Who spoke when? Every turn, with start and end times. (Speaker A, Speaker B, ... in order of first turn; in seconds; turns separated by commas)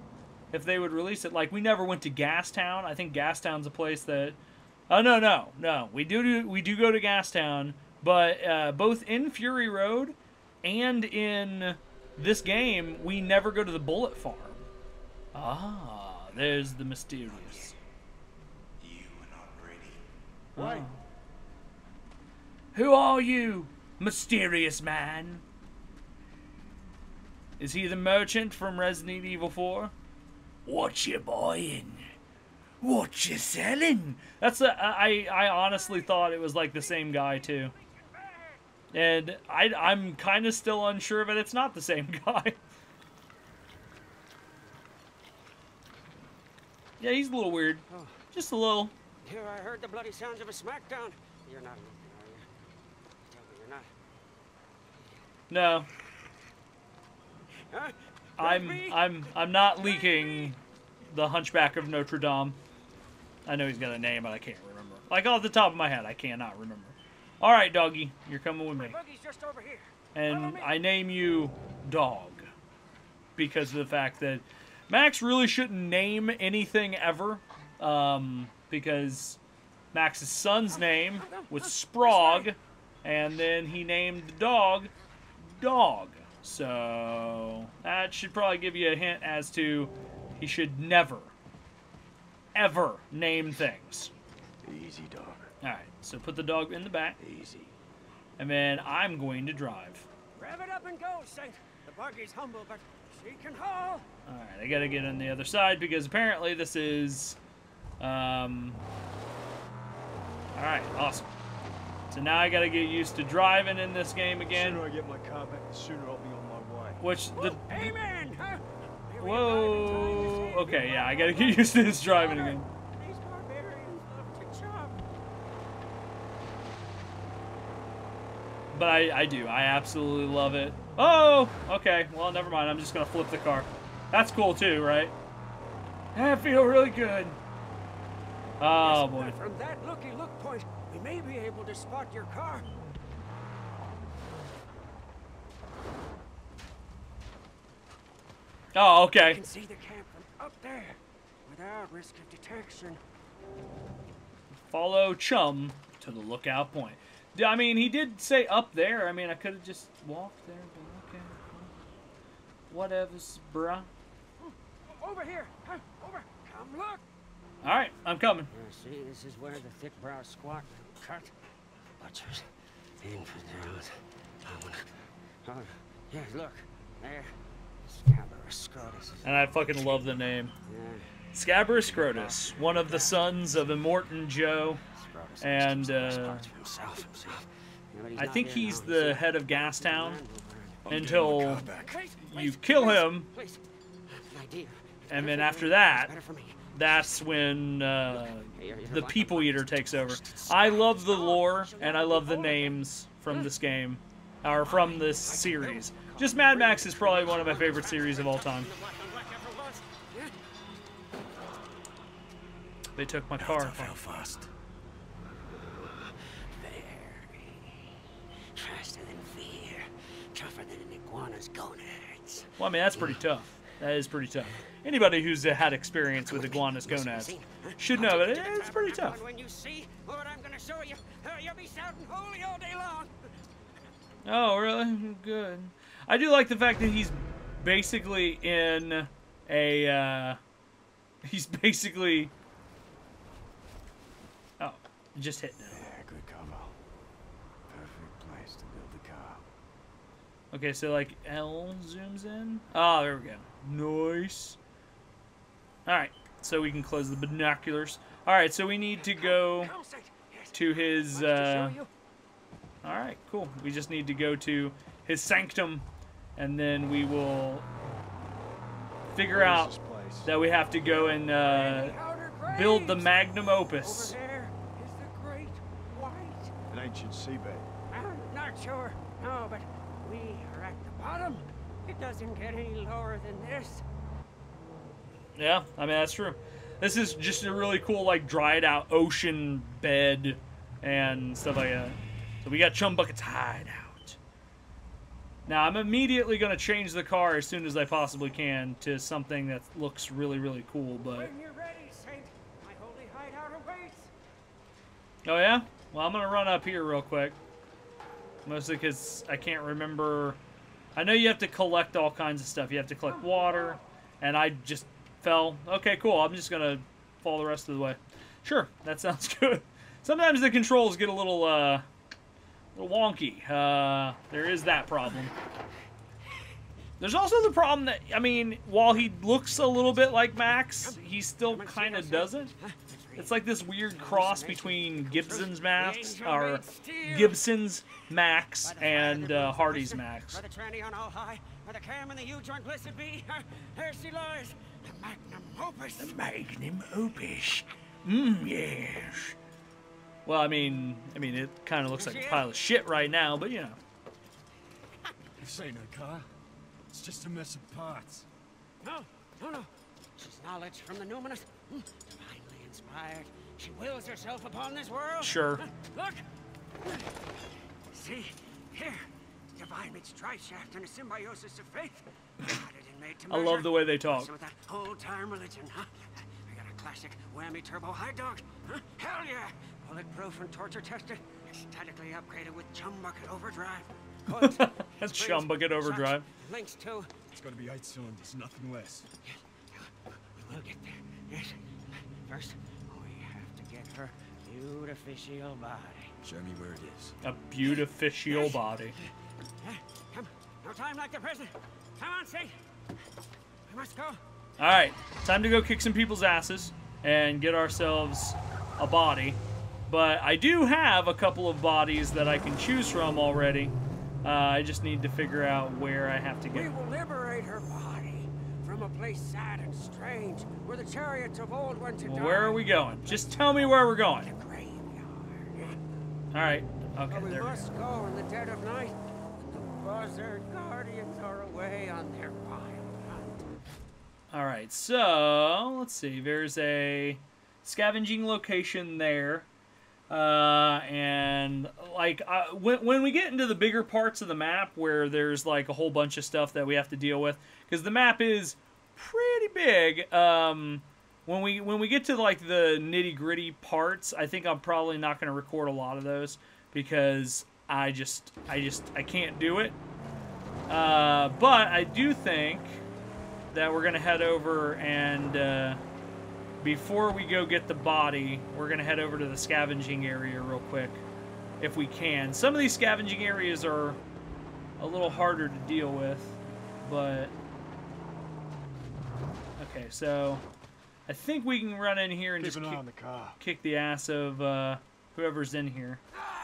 Speaker A: 0.5-4.4, Speaker A: 4.9-14.7, Speaker A: 15.3-17.8, Speaker B: 18.8-20.0, Speaker A: 20.5-21.0, Speaker A: 22.7-25.4, Speaker A: 27.6-29.9, Speaker A: 30.6-32.1, Speaker A: 32.8-37.7, Speaker C: 37.5-38.6, Speaker A: 38.9-42.6, Speaker A: 47.0-48.9, Speaker C: 47.9-48.2, Speaker C: 49.2-52.5, Speaker C: 53.2-53.9, Speaker A: 55.5-55.9, Speaker C: 57.7-59.0, Speaker A: 58.4-62.6, Speaker C: 59.7-60.5, Speaker A: 63.5-69.0, Speaker C: 68.8-70.7, Speaker A: 70.1-72.5, Speaker A: 73.3-79.4, Speaker A: 79.9-91.3, Speaker C: 81.2-82.5, Speaker A: 92.5-94.1, Speaker B: 94.6-95.5, Speaker A: 95.6-97.2, Speaker B: 97.2-97.7, Speaker A: 98.4-100.1, Speaker C: 100.3-104.0, Speaker A: 104.2-107.4, Speaker A: 108.0-108.8, Speaker A: 110.5-111.3, Speaker A: 112.1-114.8, Speaker B: 114.5-117.0, Speaker A: 117.0-117.9, Speaker C: 117.3-125.0, Speaker A: 119.2-122.7, Speaker A: 128.7-135.1, Speaker A: 136.1-137.4, Speaker A: 138.6-139.3, Speaker C: 138.8-142.7, Speaker A: 148.7-149.4, Speaker C: 149.2-153.0, Speaker A: 154.5-161.7, Speaker A: 162.7-163.9, Speaker C: 164.4-167.0, Speaker A: 167.6-168.5, Speaker C: 168.5-171.3, Speaker C: 172.0-177.3, Speaker C: 177.8-179.5, Speaker A: 179.2-180.5, Speaker C: 180.6-181.1, Speaker A: 181.3-184.8, Speaker C: 181.7-183.6, Speaker C: 184.9-190.8, Speaker A: 185.4-186.5, Speaker A: 188.2-190.2, Speaker B: 190.8-192.0, Speaker A: 190.9-193.3, Speaker C: 191.7-197.0, Speaker A: 195.1-196.1, Speaker A: 196.7-208.7, Speaker C: 198.5-203.5, Speaker C: 204.4-210.3, Speaker A: 212.9-214.1, Speaker B: 213.3-214.5, Speaker C: 216.6-217.7, Speaker C: 218.5-222.6, Speaker A: 222.6-229.2, Speaker C: 226.2-233.3, Speaker A: 234.2-240.4, Speaker A: 241.2-242.3, Speaker A: 244.6-245.9, Speaker B: 245.7-246.8, Speaker B: 247.7-249.4, Speaker A: 250.5-254.6, Speaker A: 255.8-259.7, Speaker C: 259.0-261.9, Speaker A: 260.5-261.8, Speaker A: 262.8-267.7, Speaker A: 269.1-269.7, Speaker B: 269.2-270.3, Speaker A: 270.2-274.1, Speaker C: 271.0-276.5, Speaker B: 276.7-277.7, Speaker C: 277.9-283.8, Speaker A: 285.4-294.2, Speaker A: 295.4-301.3, Speaker C: 301.1-304.1, Speaker A: 305.2-307.4, Speaker A: 308.4-310.4, Speaker A: 310.9-321.9, Speaker A: 322.7-325.3, Speaker A: 327.0-332.5, Speaker C: 330.8-337.4, Speaker A: 333.2-340.4, Speaker C: 338.6-346.2, Speaker A: 346.0-349.4, Speaker A: 350.2-353.8, Speaker C: 352.0-352.5, Speaker B: 355.4-356.3, Speaker B: 356.9-358.3, Speaker C: 358.8-366.2, Speaker A: 365.2-365.6, Speaker C: 367.9-387.1, Speaker A: 373.3-374.3, Speaker A: 384.3-386.2, Speaker B: 387.3-389.1, Speaker C: 389.2-391.7, Speaker C: 392.2-396.1, Speaker B: 396.2-397.2, Speaker A: 397.2-398.9, Speaker C: 398.2-398.6, Speaker C: 399.6-402.6, Speaker C: 403.7-404.2, Speaker A: 404.6-416.7, Speaker C: 416.5-425.8, Speaker A: 422.0-424.3, Speaker A: 426.3-427.7, Speaker C: 427.1-433.5, Speaker A: 434.3-439.5, Speaker A: 440.1-459.8, Speaker A: 460.7-462.8, Speaker A: 463.5-465.8, Speaker A: 466.6-471.0, Speaker A: 471.6-474.0, Speaker A: 474.8-477.3, Speaker A: 479.6-480.4, Speaker A: 481.1-482.8, Speaker B: 482.4-483.4, Speaker A: 483.4-486.0